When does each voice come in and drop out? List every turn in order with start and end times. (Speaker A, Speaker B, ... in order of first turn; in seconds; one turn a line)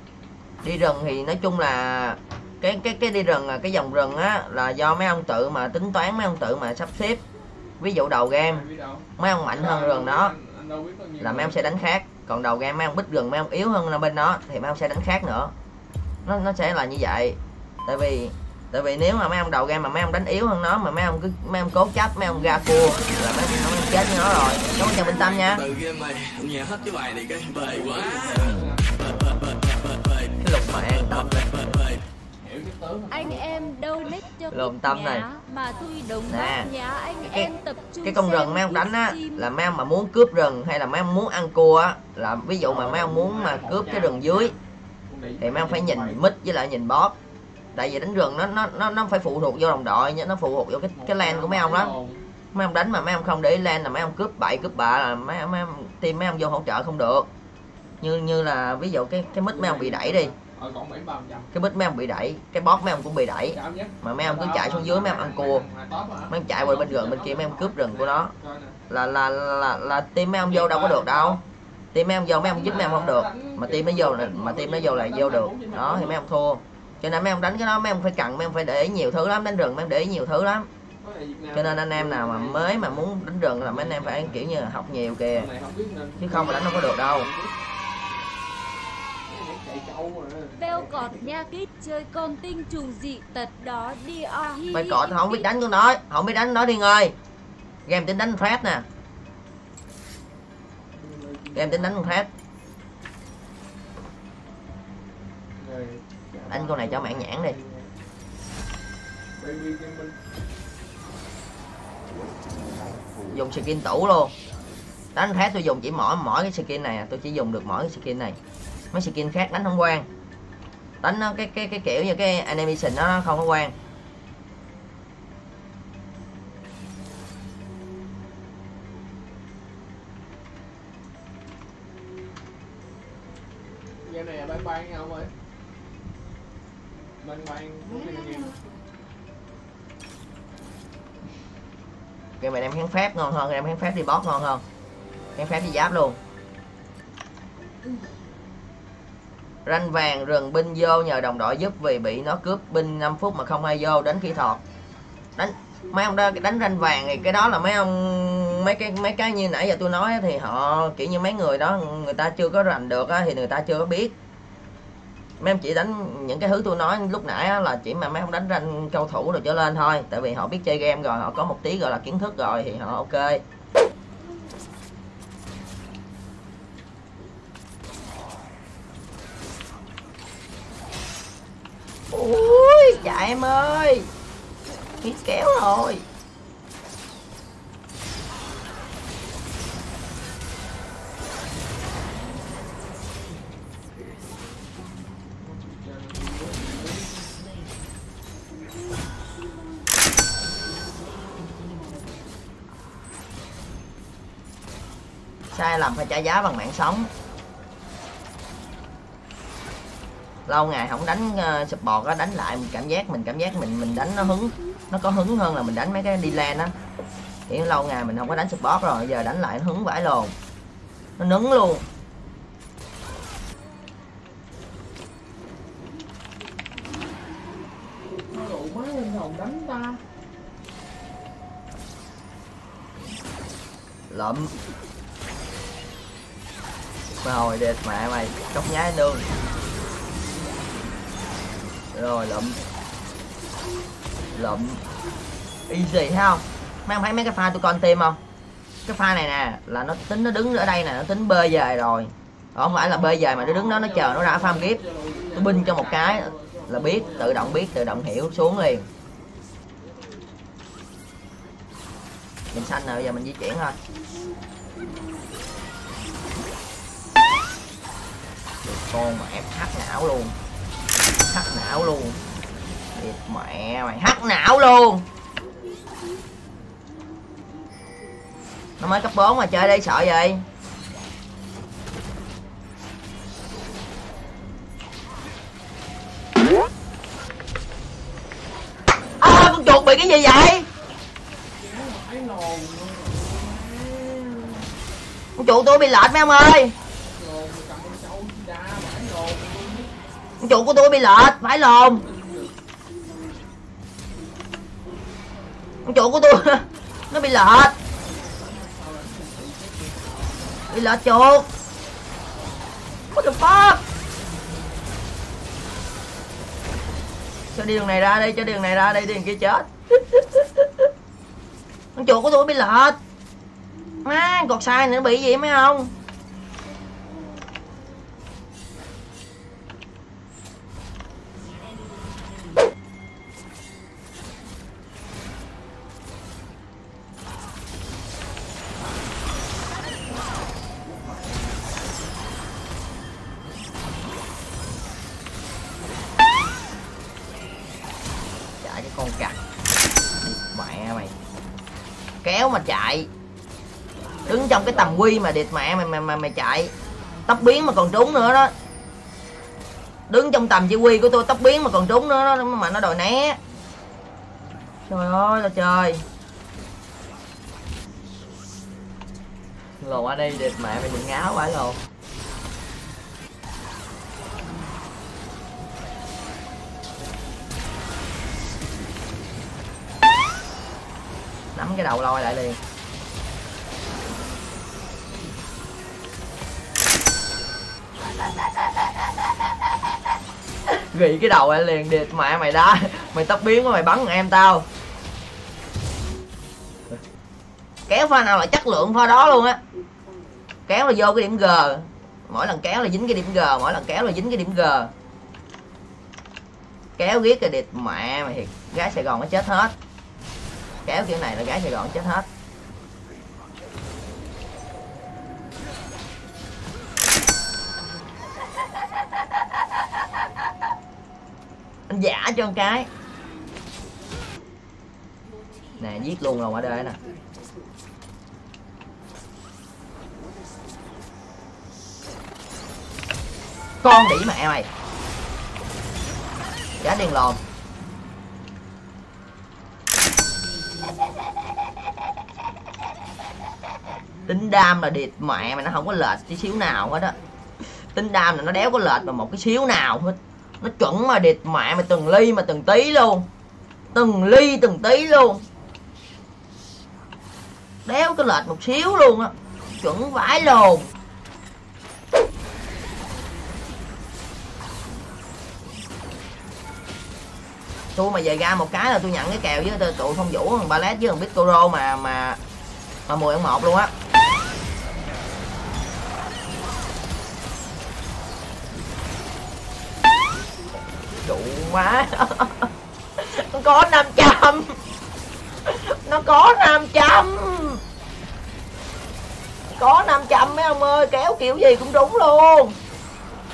Speaker A: 0.6-7.2
Speaker A: 7.8-8.7
Speaker B: 8.5-11.8
Speaker A: 9.2-10.3
Speaker A: 11.2-15.5
Speaker A: 16.2-25.6
Speaker C: 25.1-28.5
Speaker B: 27.5-29.4
Speaker A: 30.4-31.8
Speaker B: 32.4-34.1
Speaker D: 33.1-39.5
Speaker A: 34.5-35.3
Speaker A: 36.3-36.7
Speaker A: 37.2-37.5
Speaker A: 38.0-44.5
Speaker B: 42.6-44.6
Speaker B: 45.1-46.3
Speaker A: 45.4-47.2
Speaker A: 47.7-51.9
Speaker B: 51.0-52.2
Speaker A: 52.5-57.3
Speaker A: 58.0-60.3
Speaker B: 59.5-61.5
Speaker A: 61.5-65.6
Speaker B: 63.5-68.8
Speaker A: 66.3-68.3
Speaker A: 68.9-71.4
Speaker B: 70.4-71.4
Speaker A: 71.9-80.7
Speaker B: 72.4-76.2
Speaker B: 81.0-83.1
Speaker A: 81.5-85.5
Speaker B: 83.6-84.5
Speaker B: 85.3-87.5
Speaker A: 86.2-87.3
Speaker B: 89.3-91.3
Speaker D: 90.6-95.5
Speaker A: 94.7-97.2
Speaker A: 97.9-98.9
Speaker B: 100.9-102.0
Speaker A: 101.5-102.3
Speaker B: 105.6-107.9
Speaker A: 106.5-107.6
Speaker B: 109.4-110.2
Speaker A: 113.3-114.3
Speaker A: 115.2-118.4
Speaker A: 118.9-120.1
Speaker A: 121.0-123.7
Speaker B: 134.1-135.3
Speaker B: 137.2-138.6
Speaker A: 142.4-144.6
Speaker A: 145.4-146.2
Speaker A: 149.7-154.6
Speaker A: 155.4-164.2
Speaker A: 165.4-173.4
Speaker A: 182.1-184.1
Speaker A: 185.0-186.0
Speaker B: 195.4-197.2
Speaker A: 205.5-207.1
Speaker A: 210.5-216.7
Speaker A: 217.5-220.3
Speaker A: 221.2-221.8
Speaker B: 228.3-230.0
Speaker A: 234.1-234.5
Speaker A: 237.2-239.2
Speaker A: 241.9-242.6
Speaker A: 244.3-244.8
Speaker A: 245.7-248.2
Speaker A: 248.8-254.8
Speaker B: 252.6-257.6
Speaker A: 255.4-258.9
Speaker A: 262.5-263.8
Speaker A: 268.6-270.4
Speaker A: 271.3-272.2
Speaker A: 272.9-275.1
Speaker A: 278.8-280.4
Speaker A: 289.2-290.7
Speaker B: 291.5-294.7
Speaker A: 295.4-296.7
Speaker B: 297.1-299.9
Speaker A: 300.4-302.0
Speaker B: 301.9-302.5
Speaker A: 305.9-307.8
Speaker B: 307.9-310.4
Speaker A: 310.7-311.5
Speaker A: 313.1-313.8
Speaker A: 317.5-320.7
Speaker A: 322.0-323.0
Speaker A: 324.0-325.9
Speaker B: 338.9-339.2
Speaker B: 339.9-342.1
Speaker A: 348.6-349.4
Speaker A: 350.2-351.1
Speaker A: 352.2-353.1
Speaker A: 354.3-356.7
Speaker B: 354.5-355.0
Speaker A: 357.3-358.5
Speaker A: 360.1-363.4
Speaker A: 364.9-366.0
Speaker A: 369.8-371.8
Speaker A: 381.6-382.6
Speaker A: 390.7-394.7
Speaker A: 397.9-399.6
Speaker A: 400.7-404.9
Speaker A: 407.0-409.7
Speaker A: 410.9-412.3
Speaker A: 421.9-422.9
Speaker A: 425.8-427.0
Speaker A: 433.8-434.7
Speaker A: 436.8-437.4
Speaker A: 444.3-447.2
Speaker A: 447.9-453.3
Speaker A: 453.9-455.4
Speaker A: 457.9-460.9
Speaker A: 467.9-472.4
Speaker A: 473.1-473.9
Speaker A: 481.2-484.8
Speaker A: 485.7-487.8
Speaker A: 489.7-492.8